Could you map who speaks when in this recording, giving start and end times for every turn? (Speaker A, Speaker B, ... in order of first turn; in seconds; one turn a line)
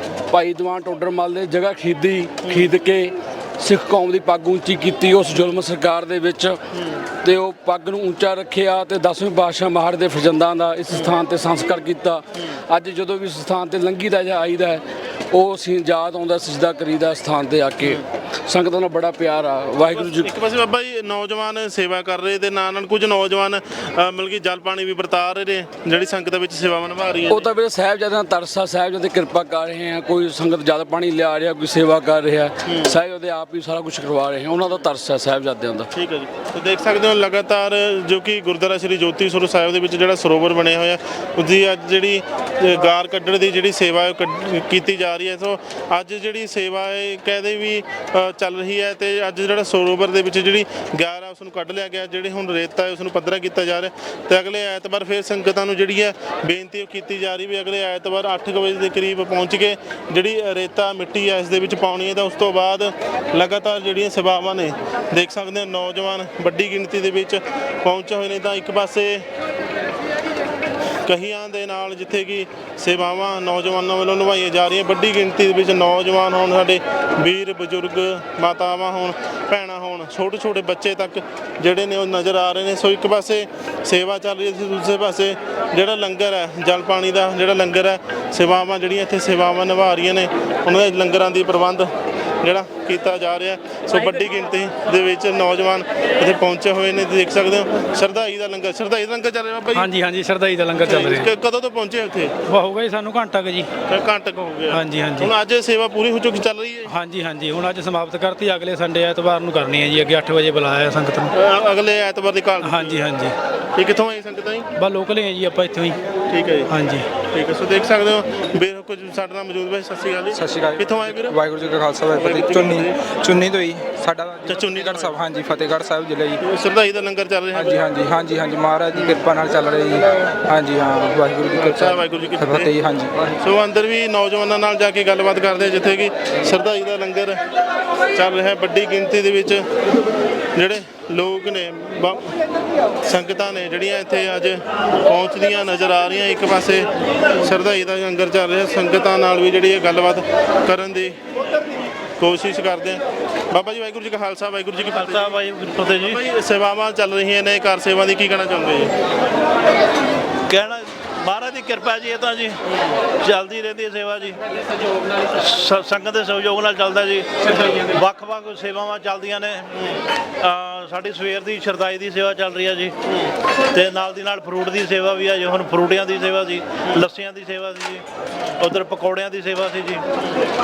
Speaker A: 0.3-6.6
Speaker B: 2.4-2.7
Speaker B: 6.7-7.0
Speaker A: 7.2-20.3
Speaker B: 10.9-11.2
Speaker B: 19.9-27.4
Speaker A: 27.3-35.9
Speaker B: 32.6-33.0
Speaker B: 35.9-69.3
Speaker B: 71.0-91.9
Speaker B: 92.4-99.9
Speaker B: 100.8-102.3
Speaker C: 103.3-103.6
Speaker B: 103.9-106.9
Speaker C: 107.1-107.6
Speaker C: 109.7-111.2
Speaker B: 111.3-113.0
Speaker B: 113.8-114.7
Speaker C: 114.9-115.9
Speaker B: 116.3-121.3
Speaker D: 120.3-126.4
Speaker B: 122.1-123.0
Speaker B: 124.5-125.2
Speaker B: 126.4-127.8
Speaker D: 127.5-133.3
Speaker B: 128.9-129.2
Speaker B: 131.5-132.8
Speaker B: 133.4-137.4
Speaker B: 138.1-139.6
Speaker B: 140.6-142.3
Speaker B: 143.0-146.8
Speaker B: 147.4-151.2
Speaker B: 152.2-155.4
Speaker E: 154.8-156.2
Speaker B: 156.1-158.9
Speaker E: 160.5-162.6
Speaker E: 163.2-164.4
Speaker E: 165.3-172.9
Speaker E: 173.7-178.0
Speaker E: 178.6-180.1